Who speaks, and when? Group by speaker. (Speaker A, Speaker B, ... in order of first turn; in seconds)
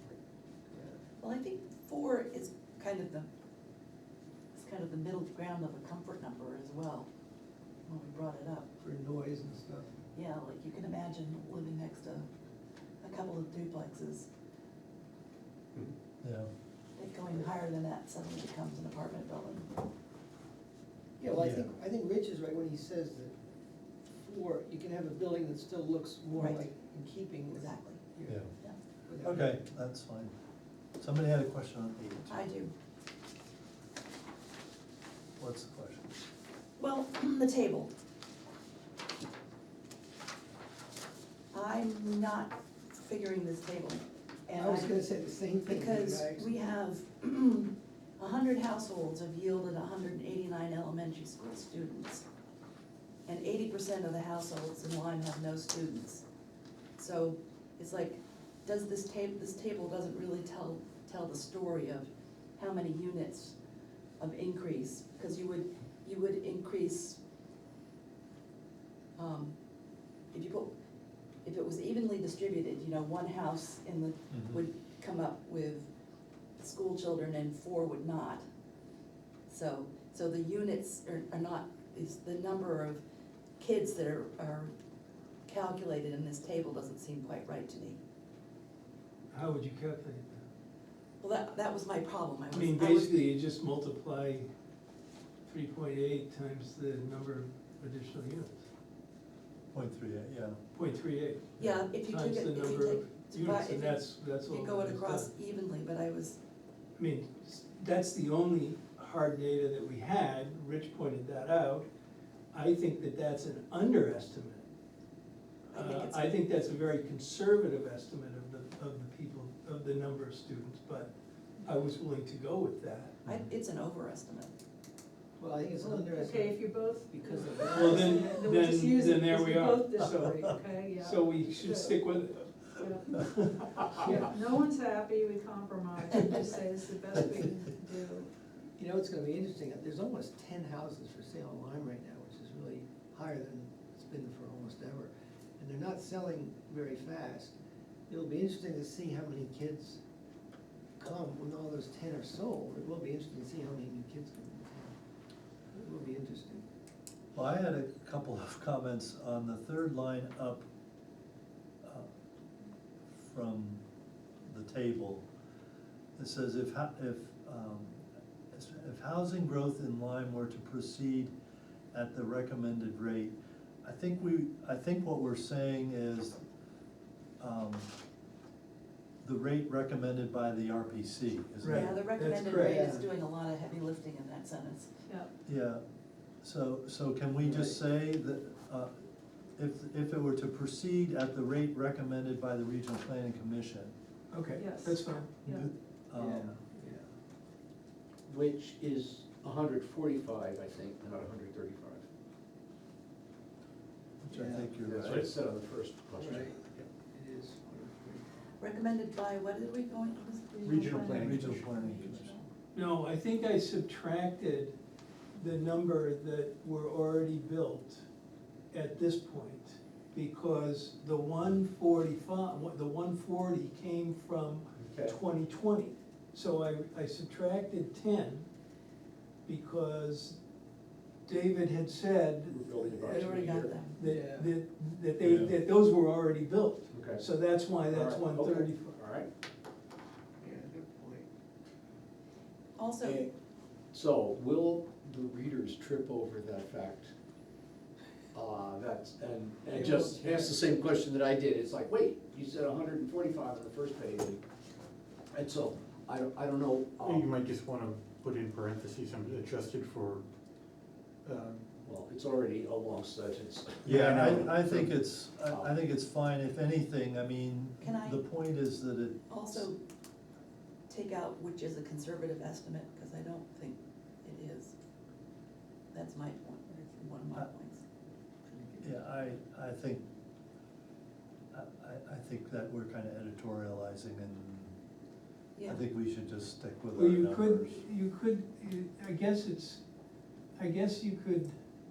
Speaker A: 0.7-1.0, 8.8-9.9, 21.2-23.4, 24.2-28.5, 29.1-29.6, 44.5-46.5, 125.4-128.4, 134.1-134.3, 138.8-147.5, 148.1-150.0, 151.0-155.0, 155.7-156.6, 182.6-183.1, 187.4-187.8, 196.1-197.0, 204.3-204.7, 206.1-208.3, 234.0-234.5, 240.4-241.3, 249.7-250.5, 278.5-279.0
Speaker B: 1.2-3.3, 4.5-7.1, 7.8-8.7, 10.1-12.3, 13.0-14.3, 16.9-19.7, 26.4-26.7, 27.6-28.0, 32.3-32.7, 36.8-37.9, 41.5-45.0, 45.6-52.2, 53.3-56.2, 57.0-63.5, 64.2-67.2, 69.2-69.5, 70.3-70.7, 71.4-75.9, 76.6-78.4, 79.5-83.0, 83.6-84.7, 85.5-88.0, 91.2-93.2, 101.6-106.4, 115.7-116.4, 123.3-124.5, 181.7-184.9, 208.6-212.4, 232.8-233.9, 242.8-243.2, 267.8-268.2, 269.3-269.8, 270.9-274.7, 275.9-277.8
Speaker C: 16.2-16.5, 21.3-21.7, 29.2-30.3, 31.0-32.4, 35.4-36.1, 74.3-74.6, 99.7-100.6, 157.3-160.7, 161.8-162.1, 163.1-163.8, 164.4-165.2, 166.2-171.3, 171.9-176.4, 177.4-177.9, 179.2-182.0, 185.4-185.8, 186.4-188.9, 189.6-193.9, 195.4-196.6, 204.2-205.3, 210.9-212.4, 235.2-235.5, 263.8-269.6, 278.8-280.0, 281.5-284.7, 285.6-287.8
Speaker D: 89.3-90.4, 92.5-94.5, 95.5-98.6, 100.7-105.3, 107.0-111.9, 112.5-114.7, 115.7-121.1, 121.6-123.2, 127.7-130.5, 131.0-134.0, 181.6-182.9, 194.3-195.4, 212.7-214.7, 215.3-218.0, 218.7-228.5, 229.4-230.4, 231.2-232.6, 233.9-238.9, 286.9-289.8, 290.6-291.5
Speaker E: 125.9-132.0, 132.7-133.2, 134.0-138.3, 194.6-195.7, 210.6-212.3
Speaker F: 198.3-202.0, 204.8-206.8, 224.7-225.2, 232.5-233.7, 236.9-237.2, 237.9-239.3, 243.9-247.1, 248.3-254.4, 255.3-257.3, 261.8-263.9, 264.6-265.7
Speaker G: 210.6-211.7, 257.0-260.2, 261.2-261.7, 263.9-264.6